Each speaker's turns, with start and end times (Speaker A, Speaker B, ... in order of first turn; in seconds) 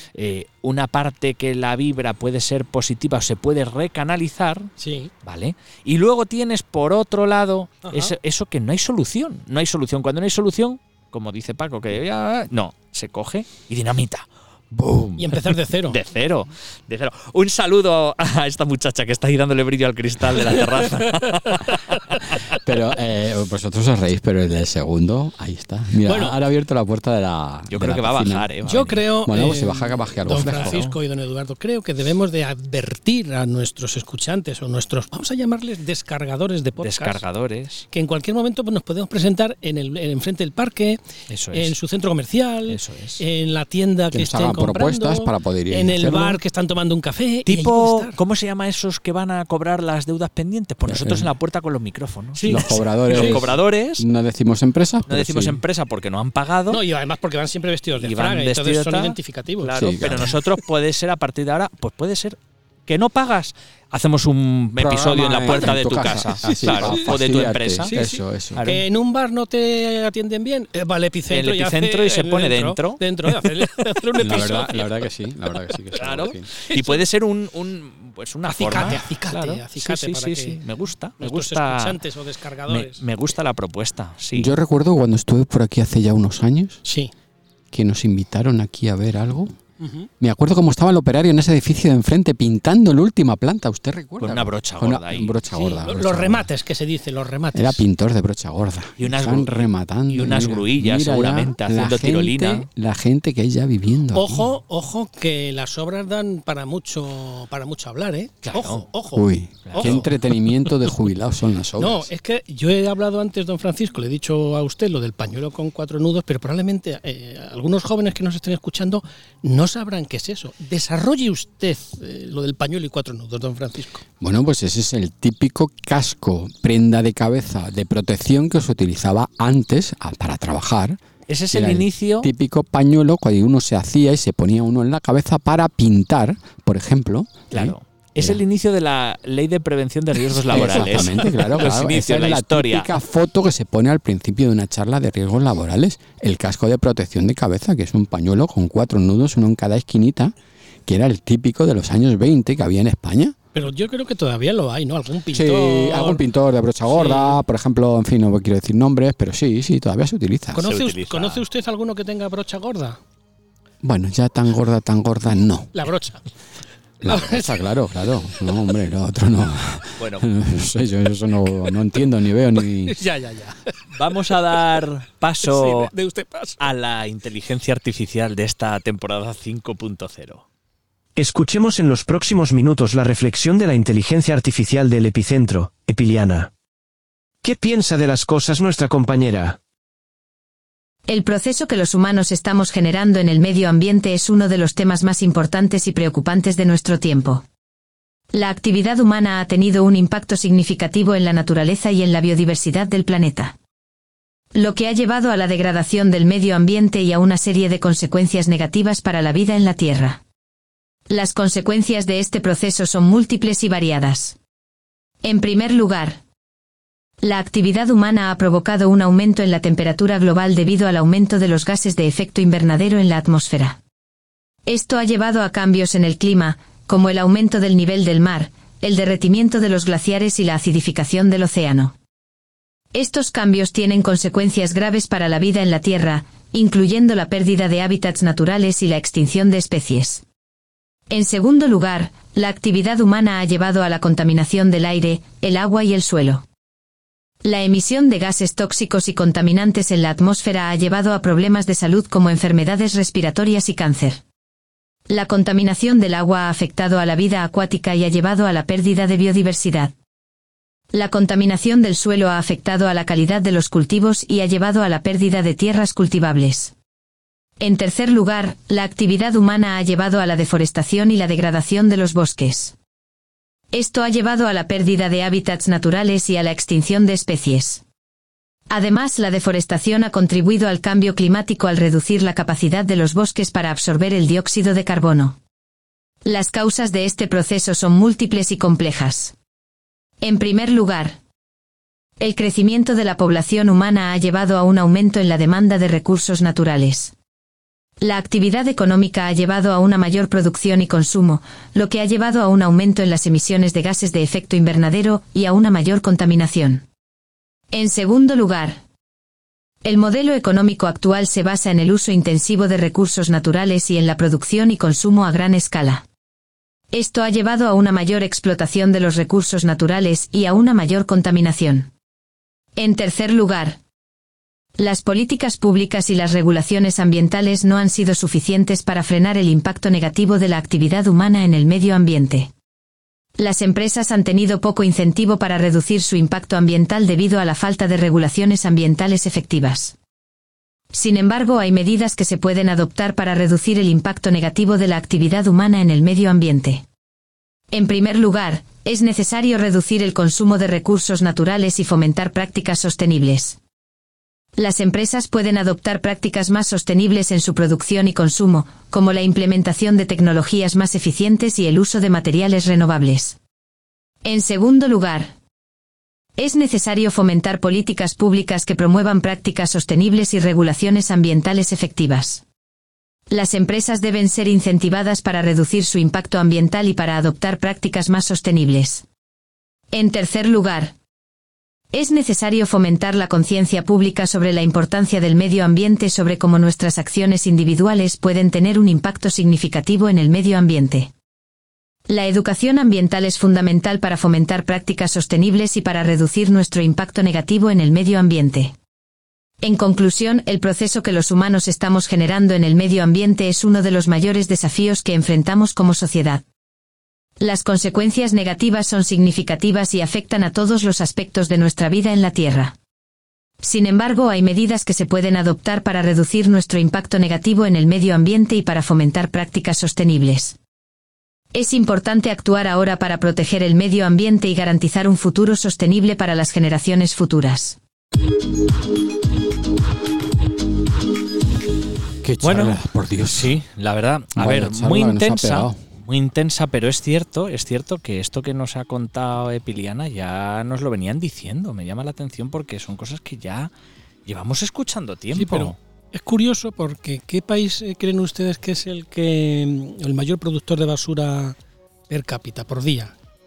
Speaker A: 0.1-4.7, 5.2-22.4, 27.7-29.1, 30.4-30.9, 36.8-37.8, 41.3-41.7, 42.7-43.2, 47.5-54.0, 55.1-56.8, 58.0-68.0, 68.5-68.8, 71.3-73.7, 76.0-82.0, 82.7-84.5, 94.2-95.4, 99.0-102.7, 108.4-108.8, 109.6-110.0, 131.3-132.3, 137.5-142.9, 160.6-161.4, 170.0-170.3, 173.9-175.9, 176.6-180.4, 432.4-443.7, 444.2-445.8
Speaker B: 4.8-5.1, 7.8-8.1, 15.2-16.0, 26.0-26.4, 28.6-37.2, 37.9-41.0, 41.5-48.2, 52.4-53.4, 56.7-59.8, 66.2-67.1, 67.9-75.0, 75.9-77.0, 78.5-80.6, 81.2-83.0, 86.8-87.1, 89.8-90.1, 95.5-97.8, 104.1-110.1, 111.8-124.0, 153.5-156.3, 156.9-157.4, 160.5-163.0, 165.7-166.2, 167.0-167.5, 172.6-173.8, 175.4-176.7, 445.3-451.6, 452.1-453.1
Speaker C: 22.5-28.5, 29.2-30.8, 44.1-46.4, 50.8-51.3, 52.5-55.6, 59.7-60.3, 64.8-68.6, 74.2-76.5, 84.3-86.8, 87.7-89.6, 90.2-96.5, 97.5-104.5, 109.1-112.1, 124.2-131.0, 131.5-138.4, 140.4-150.3, 150.8-153.3, 155.3-160.7, 163.8-165.7, 167.0-172.9, 432.2-433.6, 434.4-435.8
Speaker D: 181.2-186.5, 187.4-189.6
Speaker E: 191.1-197.4, 198.3-203.6, 204.5-210.2, 211.1-214.3, 215.2-216.2, 217.2-223.8, 224.7-231.9, 232.9-240.2, 241.1-246.4, 247.4-254.2, 255.1-259.9, 260.9-266.7, 267.6-272.7, 273.7-277.8, 278.7-285.4, 286.2-289.3, 290.2-291.2, 292.2-297.1, 298.0-306.8, 307.7-308.8, 309.8-316.0, 316.9-321.9, 322.8-323.8, 324.8-332.5, 333.4-339.9, 340.9-346.8, 347.7-353.6, 354.6-363.4, 364.2-365.3, 366.4-372.4, 373.3-379.0, 379.9-380.9, 381.9-391.1, 392.1-398.7, 399.6-406.4, 407.4-412.7, 413.6-420.5, 421.5-427.8